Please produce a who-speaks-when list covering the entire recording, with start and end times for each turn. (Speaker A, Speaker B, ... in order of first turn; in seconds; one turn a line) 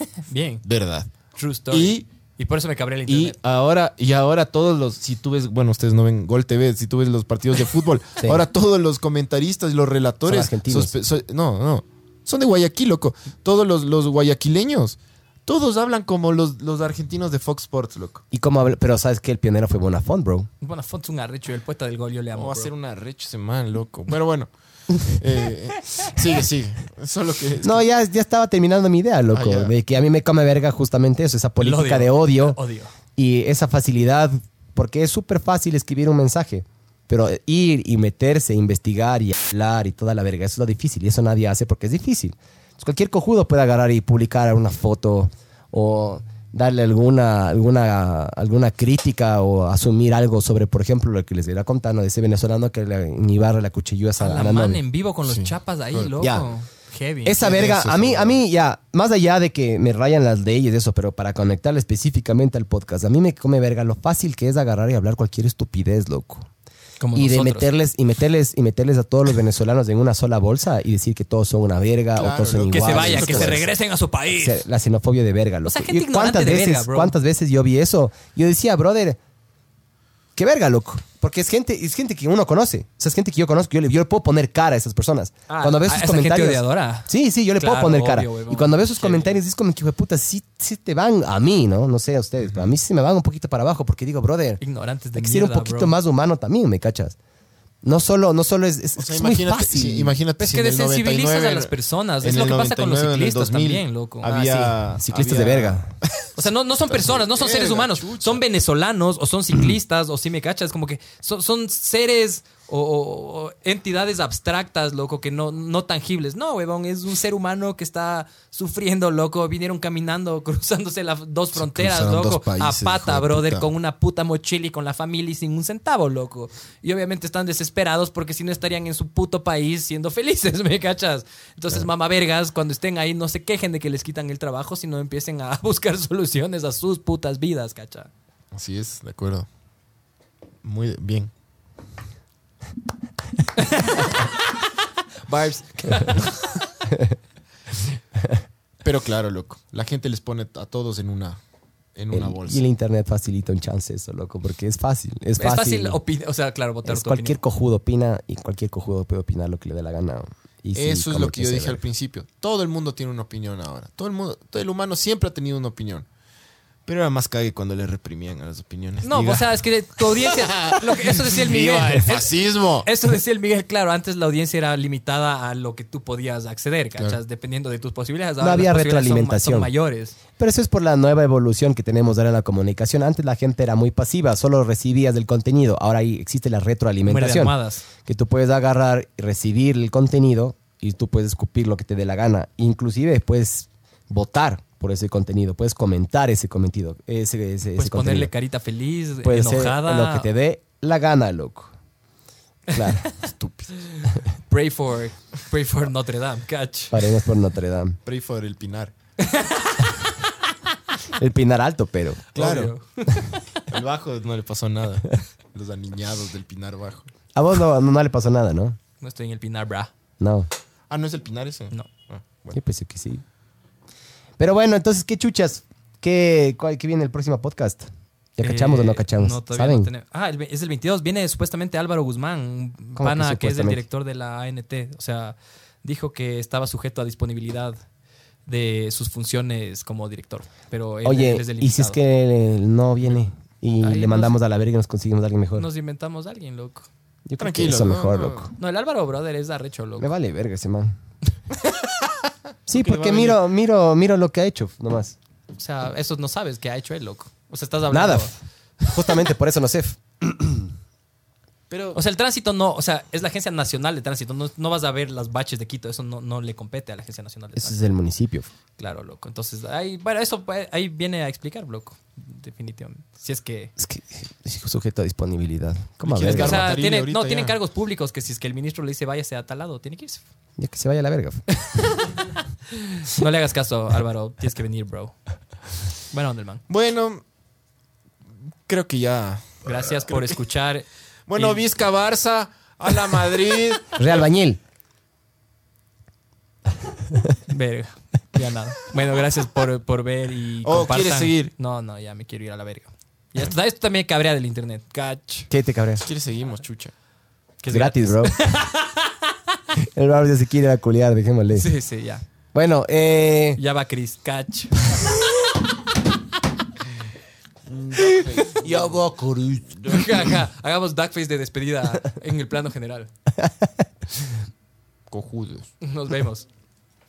Speaker A: 0.1-0.6
Speaker B: 0.6-1.1
Speaker A: 1.3-3.4
Speaker B: 1.7-2.0
Speaker B: 3.1-18.2
Speaker C: 8.2-8.4
Speaker C: 10.2-10.9
Speaker C: 18.3-20.5
Speaker A: 20.6-22.7
Speaker B: 22.3-27.8
Speaker C: 27.6-32.6
Speaker B: 29.3-29.7
Speaker A: 31.6-32.9
Speaker C: 33.1-54.8
Speaker A: 54.2-58.4
Speaker B: 55.2-56.1
Speaker C: 56.2-56.5
Speaker C: 57.2-66.5
Speaker A: 67.0-67.7
Speaker C: 67.1-73.7
Speaker B: 72.2-73.7
Speaker A: 72.7-74.6
Speaker C: 74.4-79.2
Speaker A: 75.6-77.1
Speaker C: 80.3-94.6
Speaker A: 85.5-89.4
Speaker B: 92.4-92.7
Speaker A: 94.6-95.9
Speaker C: 95.1-97.2
Speaker C: 97.8-100.1
Speaker B: 99.0-106.4
Speaker A: 100.4-104.3
Speaker C: 104.2-105.9
Speaker A: 106.4-138.1
Speaker B: 106.9-108.4
Speaker B: 121.5-123.7
Speaker B: 138.5-139.5
Speaker B: 140.6-141.3
Speaker A: 143.5-144.3
Speaker A: 145.3-146.3
Speaker C: 146.8-147.2
Speaker B: 148.8-151.4
Speaker B: 151.9-152.6
Speaker C: 152.1-156.0
Speaker A: 155.4-157.4
Speaker C: 156.8-161.8
Speaker B: 160.7-166.1
Speaker B: 166.8-169.5
Speaker A: 169.0-172.3
Speaker B: 170.2-172.9
Speaker A: 172.8-180.2
Speaker C: 178.4-179.7
Speaker C: 180.4-198.3
Speaker A: 187.0-187.8
Speaker A: 197.8-200.3
Speaker C: 199.2-201.7
Speaker A: 202.7-203.1
Speaker C: 202.7-203.0
Speaker B: 203.2-203.7
Speaker A: 204.0-207.0
Speaker C: 206.9-208.0
Speaker B: 208.1-208.9
Speaker A: 209.2-209.9
Speaker C: 211.1-212.6
Speaker B: 212.3-212.7
Speaker A: 212.3-213.2
Speaker B: 213.7-217.1
Speaker C: 217.3-218.8
Speaker A: 219.0-219.9
Speaker C: 220.2-220.5
Speaker B: 220.9-222.6
Speaker C: 222.5-223.2
Speaker C: 224.4-229.9
Speaker A: 228.4-237.8
Speaker C: 232.9-233.8
Speaker A: 238.4-242.0
Speaker C: 241.0-245.7
Speaker A: 243.8-244.4
Speaker A: 245.6-246.9
Speaker C: 247.3-248.5
Speaker B: 247.4-248.5
Speaker A: 248.6-250.1
Speaker C: 250.0-250.9
Speaker C: 252.7-255.2
Speaker B: 252.7-253.4
Speaker A: 255.6-258.4
Speaker C: 257.9-258.3
Speaker C: 258.9-260.7
Speaker B: 261.7-262.0
Speaker A: 261.9-267.8
Speaker C: 267.6-268.5
Speaker A: 268.8-273.7
Speaker C: 273.8-276.6
Speaker B: 276.0-277.6
Speaker A: 276.2-280.2
Speaker C: 280.6-281.4
Speaker A: 282.7-285.1
Speaker A: 286.1-286.6
Speaker B: 286.7-287.2
Speaker B: 288.7-290.4
Speaker A: 289.6-291.6
Speaker B: 291.3-294.2
Speaker C: 293.9-294.6
Speaker A: 297.5-305.5
Speaker B: 300.6-301.5
Speaker C: 305.5-306.0
Speaker B: 306.0-306.9
Speaker A: 307.6-309.2
Speaker C: 307.7-308.3
Speaker C: 309.8-311.7
Speaker A: 311.5-312.2
Speaker C: 312.5-313.6
Speaker A: 313.6-314.9
Speaker B: 317.7-319.1
Speaker C: 318.1-319.7
Speaker A: 318.1-318.5
Speaker B: 319.8-320.3
Speaker A: 319.9-323.1
Speaker C: 323.4-323.7
Speaker B: 325.1-325.7
Speaker A: 325.8-326.5